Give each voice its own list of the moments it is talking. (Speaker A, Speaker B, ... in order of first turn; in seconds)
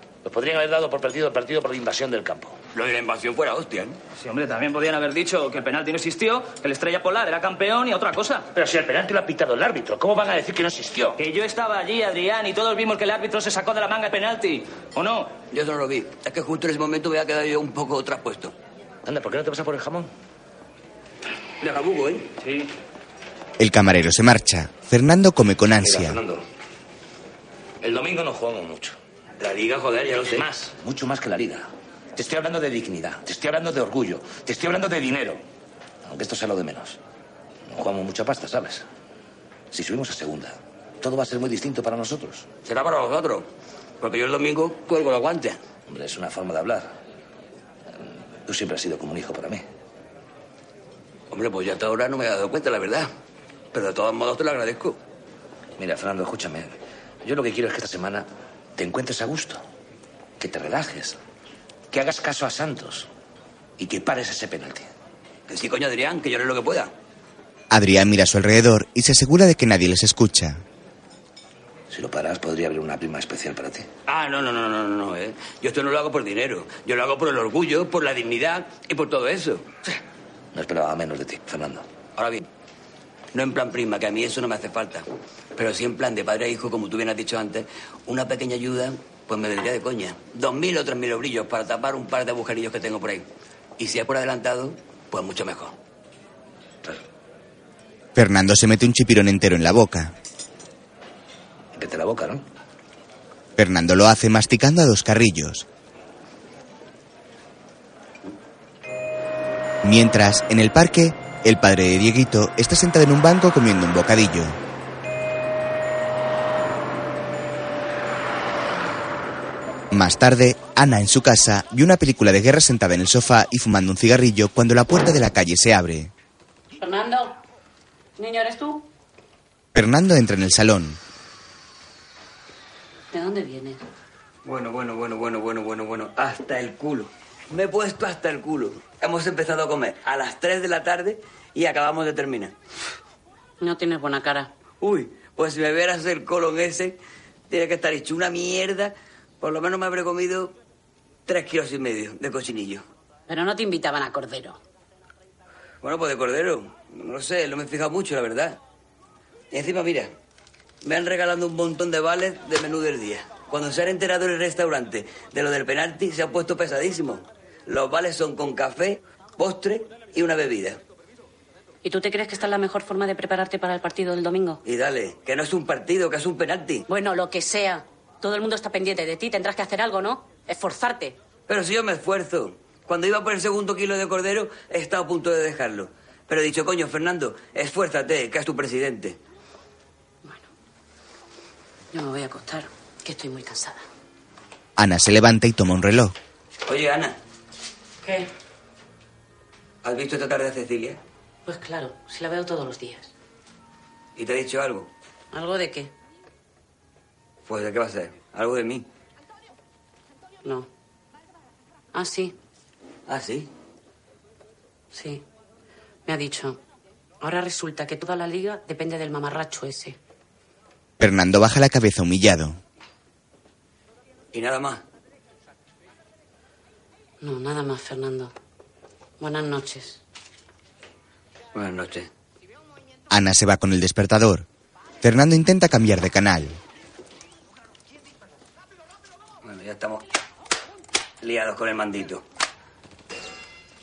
Speaker A: 0.2-2.6, 8.5-11.2, 19.0-20.1, 25.8-26.4, 27.8-28.9, 30.3-35.4, 36.0-37.0, 37.7-38.8, 39.7-42.5, 45.9-46.9, 48.0-49.6, 55.8-56.7, 57.2-59.6, 60.4-61.2, 61.9-63.1, 63.8-64.9, 71.9-73.9, 80.5-81.8, 101.7-102.4
Speaker B: 2.7-4.0, 15.5-18.5, 21.6-22.3, 29.4-30.5, 42.6-43.5, 44.0-45.6, 51.3-53.1, 53.7-55.0, 65.5-66.9, 74.1-79.7, 82.2-82.4, 83.3-85.0, 85.5-93.2, 93.8-95.8, 134.4-142.5, 144.8-147.0, 147.5-150.5, 151.2-152.8, 155.8-158.6, 159.5-160.1, 160.8-170.8, 174.6-176.8, 181.5-189.2, 196.6-197.2, 199.8-201.0, 204.2-204.9, 207.4-208.9, 213.1-213.5, 224.3-224.8, 231.5-232.1, 239.4-240.0, 241.2-242.2
Speaker C: 4.2-8.5, 11.2-15.3, 22.4-22.7
Speaker D: 23.6-26.2, 67.7-70.6, 98.1-100.1, 103.6-105.7, 109.8-114.6, 119.9-126.1, 129.7-131.0, 194.8-196.1, 221.0-222.6, 233.1-234.4, 235.0-236.6
Speaker E: 126.8-127.3, 128.2-128.8, 133.1-133.8, 143.6-144.5, 153.3-154.6, 171.8-174.6, 176.9-181.2, 191.9-193.8, 198.0-198.3, 201.4-203.1, 205.3-205.9, 211.9-212.3, 214.9-215.2, 216.1-216.6, 217.2-220.0, 227.2-228.3, 229.2-230.0